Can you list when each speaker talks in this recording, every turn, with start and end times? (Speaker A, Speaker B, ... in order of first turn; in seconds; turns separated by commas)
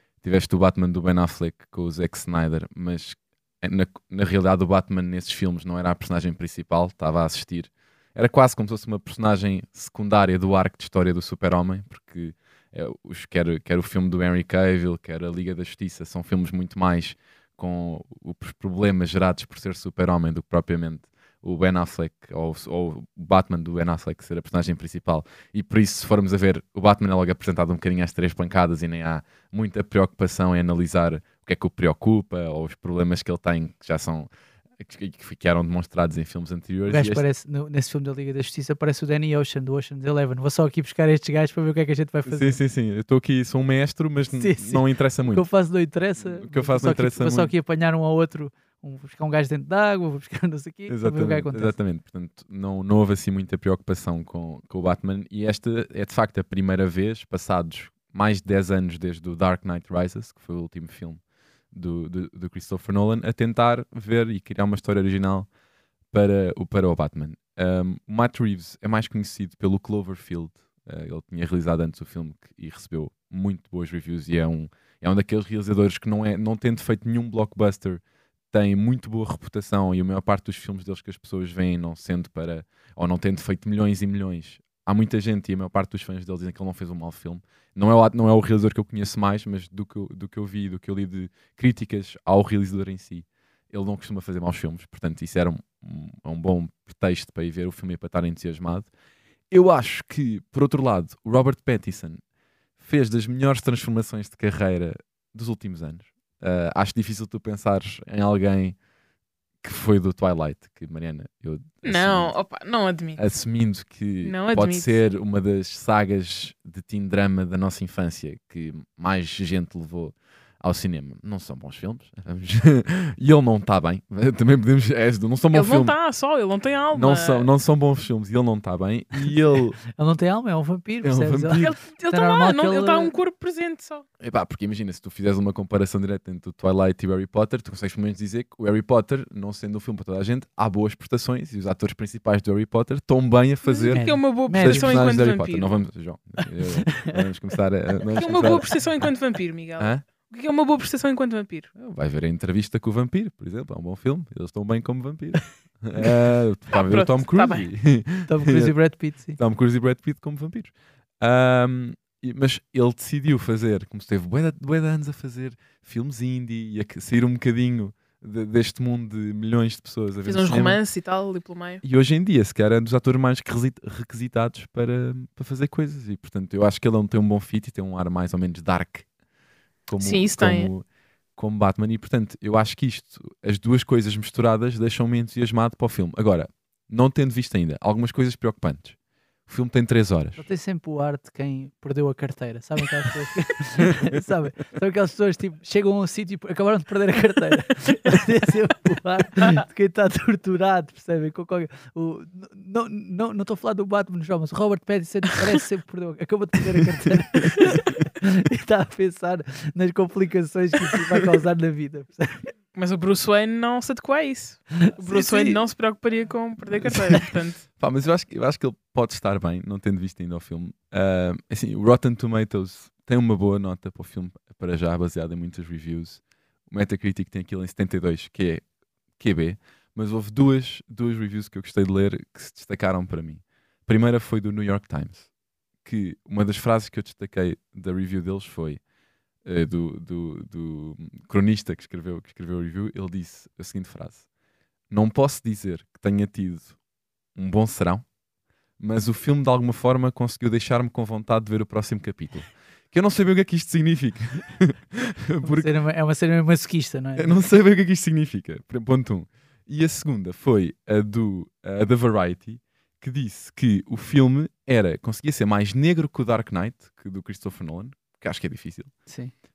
Speaker A: 0.2-37.2, Speaker B: 36.9-42.6, Speaker A: 42.2-45.5, Speaker B: 44.3-51.8, Speaker A: 46.2-47.5, Speaker A: 50.9-65.5, Speaker A: 66.1-98.9, Speaker A: 99.5-102.2, Speaker A: 102.8-108.8, Speaker A: 109.6-112.4, Speaker C: 111.8-113.2, Speaker A: 113.2-126.0, Speaker C: 114.2-114.9, Speaker C: 125.5-127.5, Speaker A: 126.9-129.8, Speaker B: 129.3-133.1, Speaker A: 131.0-131.7, Speaker C: 131.6-134.1, Speaker A: 134.2-149.1, Speaker C: 143.6-145.8, Speaker B: 143.9-145.0, Speaker C: 148.0-151.7, Speaker A: 149.8-150.0, Speaker A: 151.8-170.8, Speaker C: 156.7-157.7, Speaker B: 158.3-159.4, Speaker C: 170.2-171.8, Speaker A: 171.8-179.1, Speaker A: 179.9-180.8, Speaker C: 180.0-180.7, Speaker A: 181.3-188.9, Speaker A: 189.5-190.4, Speaker B: 190.4-212.5, Speaker C: 212.7-217.6, Speaker A: 215.1-215.6, Speaker A: 216.8-228.6, Speaker A: 229.2-235.3, Speaker A: 235.8-238.8, Speaker A: 239.4-244.2, Speaker A: 244.9-246.8, Speaker A: 247.3-248.1, Speaker A: 248.8-255.7, Speaker B: 255.4-257.5, Speaker A: 257.2-269.0, Speaker B: 269.1-269.3